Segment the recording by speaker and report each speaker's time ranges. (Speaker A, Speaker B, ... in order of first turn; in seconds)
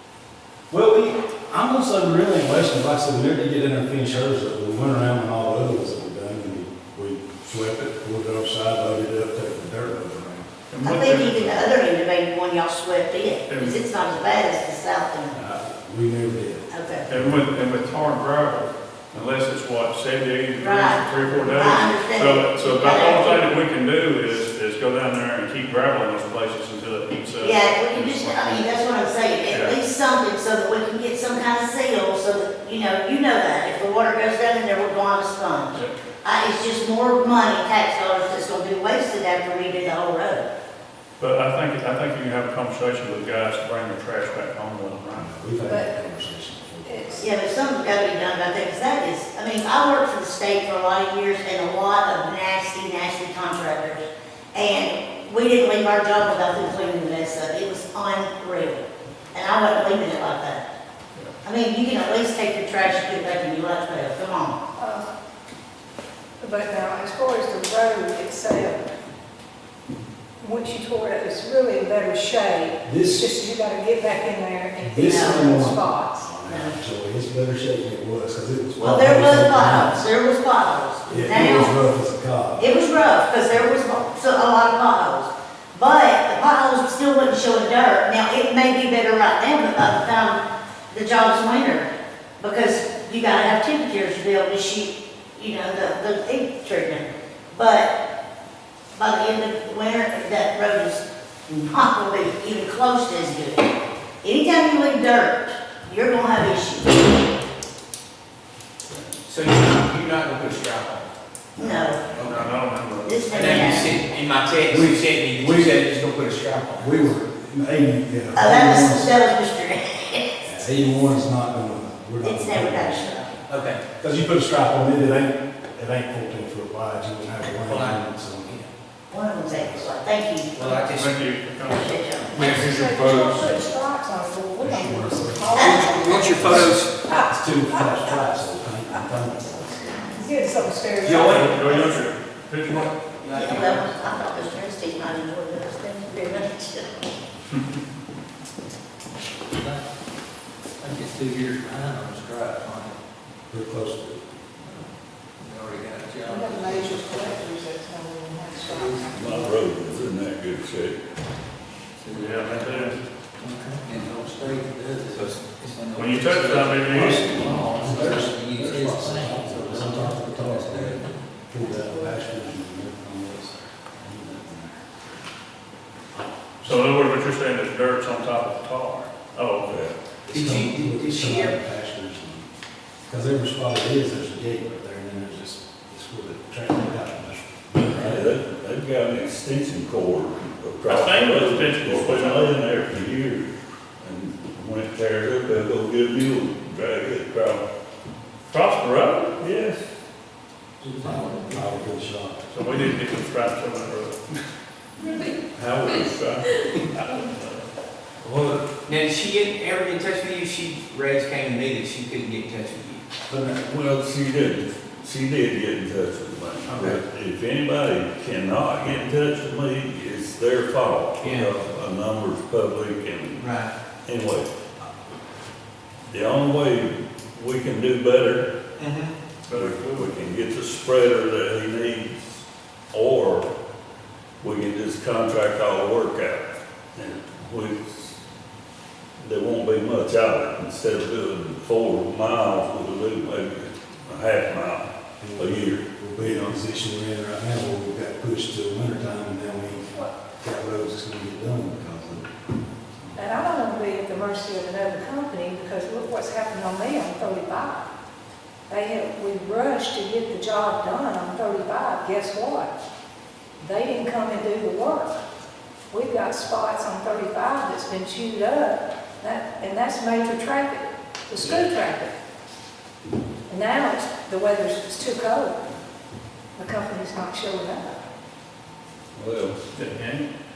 Speaker A: 0.7-10.5, 15.3-17.4, 45.1-47.3, 72.8-73.4, 74.8-80.1, 81.0-82.7, 111.6-111.9, 114.7-115.9, 116.7-119.1, 120.4-123.1, 124.0-128.6, 129.6-129.9, 134.6-139.9, 153.5-154.2, 166.9-175.2, 176.1-176.9, 180.3-182.5, 183.1-188.3, 201.0-202.5, 213.3-213.6, 245.2-252.3, 253.0-253.3
Speaker B: 10.7-11.7, 13.5-13.8, 17.1-28.8, 29.5-29.8, 41.2-45.4, 112.2-113.7, 130.9-132.0, 141.3-142.9, 162.1-162.9, 165.9-167.2, 176.6-179.7, 190.9-192.6, 198.5-199.3, 202.5-204.2, 207.1-207.6, 229.5-230.1, 279.7-280.3
Speaker C: 10.8-15.4, 16.7-17.1, 20.6-23.5, 27.4-40.5, 47.2-60.6, 61.4-64.6, 75.0-75.5, 76.4-76.7, 78.8-81.8, 82.6-91.9, 92.4-97.9, 98.9-103.7, 104.2-107.2, 111.6-112.0, 113.0-114.0, 118.3-120.4, 122.2-123.4, 129.1-130.9, 131.6-132.6, 135.5-136.2, 143.3-147.0
Speaker D: 45.6-46.0, 46.8-47.2, 64.8-65.1, 66.4-68.8, 70.4-76.3, 132.4-137.8, 140.1-141.5, 156.2-159.5, 253.2-257.9, 258.7-262.7, 263.6-265.2, 265.9-272.1, 273.5-275.6, 276.6-278.0
Speaker E: 109.3-111.1, 112.2-112.5, 113.3-117.1, 123.5-123.8, 127.6-128.7, 130.6-131.2, 141.0-142.0, 142.7-144.1, 165.1-166.2, 180.3-181.6, 208.9-213.0, 216.7-217.0, 221.2-221.5, 223.4-223.7, 228.8-229.2
Speaker F: 132.3-133.5, 135.7-136.9, 149.5-149.8, 150.8-153.0, 155.4-157.5, 158.6-159.5, 162.0-171.3, 200.8-201.8
Speaker G: 159.1-161.0, 179.6-179.9, 187.9-197.6, 199.4-199.9, 205.5-206.6, 208.2-208.7, 213.5-223.5, 224.0-224.5, 226.1-228.5, 229.5-232.4, 232.9-233.5, 234.4-238.2, 239.2-245.8, 271.4-271.7, 279.1-279.6